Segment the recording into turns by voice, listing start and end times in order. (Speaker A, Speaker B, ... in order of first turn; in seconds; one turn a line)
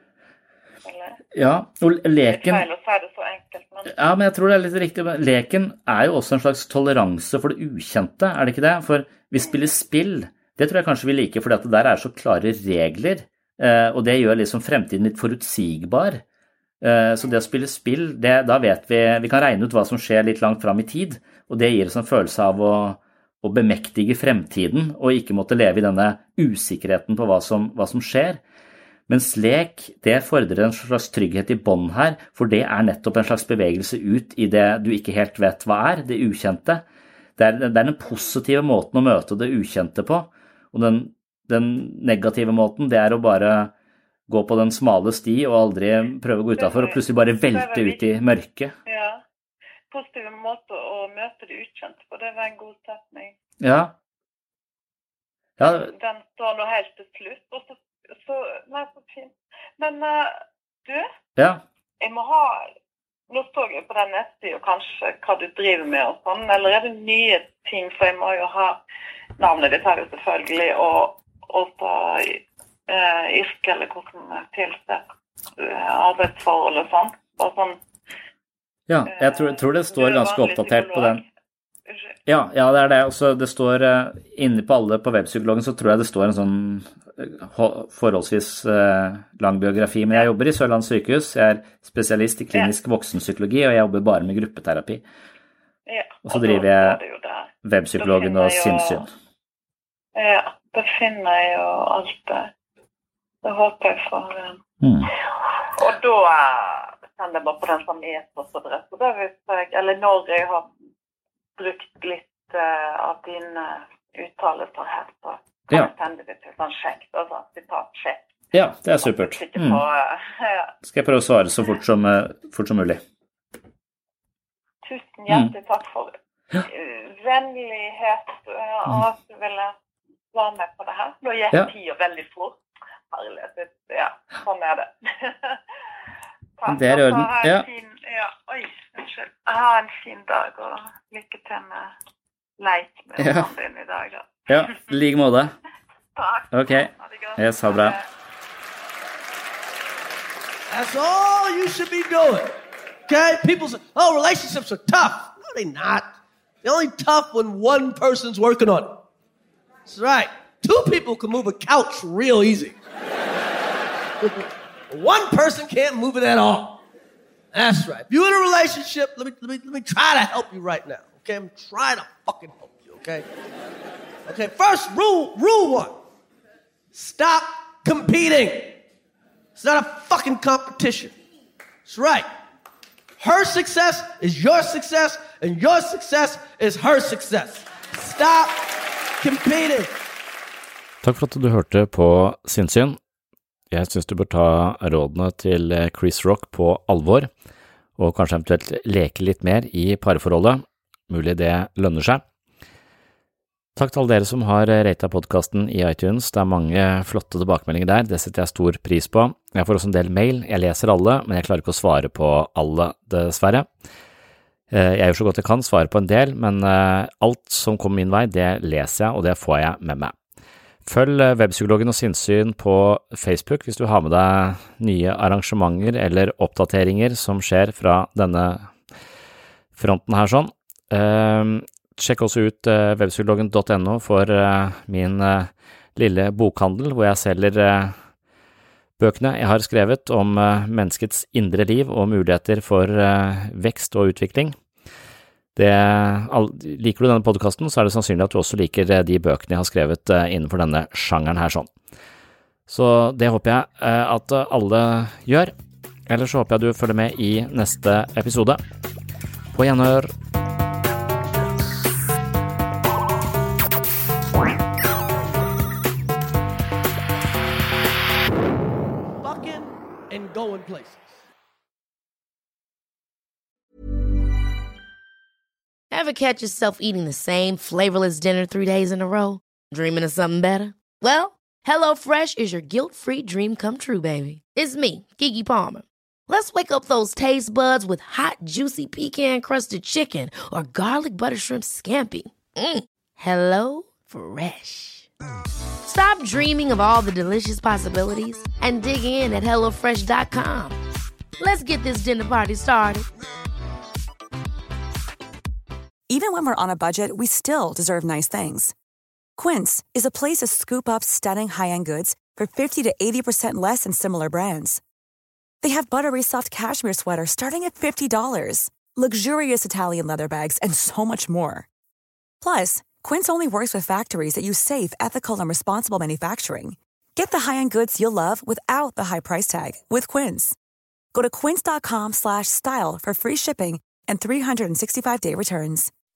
Speaker A: 0.8-1.2
Speaker B: 1.3-2.6
Speaker A: 2.3-4.1
Speaker B: 3.9-16.2
Speaker B: 16.8-28.4
Speaker B: 29.1-36.8
Speaker B: 37.4-43.7
Speaker B: 44.3-48.7
Speaker A: 46.6-48.0
Speaker A: 48.9-49.2
Speaker A: 49.9-53.3
Speaker B: 53.6-53.9
Speaker B: 55.6-55.9
Speaker A: 55.6-61.1
Speaker B: 61.4-61.6
Speaker A: 62.0-62.7
Speaker A: 63.3-68.8
Speaker A: 69.4-75.1
Speaker A: 75.6-77.8
Speaker B: 78.9-81.2
Speaker A: 79.1-81.2
Speaker A: 81.8-82.1
Speaker B: 82.2-95.0
Speaker A: 95.8-99.0
Speaker B: 96.2-97.0
Speaker B: 97.6-99.1
Speaker A: 100.1-102.5
Speaker A: 103.4-104.6
Speaker B: 104.8-105.1
Speaker A: 105.7-110.7
Speaker A: 111.6-118.2
Speaker B: 118.5-119.8
Speaker A: 119.0-120.7
Speaker B: 120.8-123.0
Speaker A: 124.8-129.7
Speaker A: 130.3-132.6
Speaker A: 133.1-135.6
Speaker A: 136.6-141.9
Speaker B: 136.7-137.7
Speaker A: 142.6-144.5
Speaker B: 143.2-143.5
Speaker B: 144.5-145.5
Speaker A: 146.2-148.0
Speaker B: 146.5-148.0
Speaker C: 150.7-152.5
Speaker C: 153.1-156.1
Speaker C: 156.6-159.0
Speaker C: 159.8-162.8
Speaker C: 164.2-166.8
Speaker C: 167.5-173.2
Speaker C: 174.3-176.0
Speaker C: 176.9-178.8
Speaker C: 179.6-181.1
Speaker C: 181.8-182.3
Speaker C: 183.2-188.6
Speaker C: 189.2-189.9
Speaker B: 191.0-193.0
Speaker B: 193.7-197.3
Speaker B: 198.0-202.2
Speaker B: 203.8-213.7
Speaker B: 214.7-220.1
Speaker B: 220.8-228.7
Speaker B: 229.8-237.9
Speaker B: 239.0-244.6
Speaker B: 245.6-251.7
Speaker B: 252.7-255.5
Speaker B: 256.1-258.6
Speaker B: 259.5-260.1
Speaker C: 269.2-271.2
Speaker D: 275.9-295.1
Speaker D: 295.8-300.8
Speaker D: 301.4-303.1
Speaker E: 306.1-308.7
Speaker E: 309.4-314.8
Speaker E: 315.6-321.7
Speaker E: 322.4-330.6
Speaker E: 331.1-335.9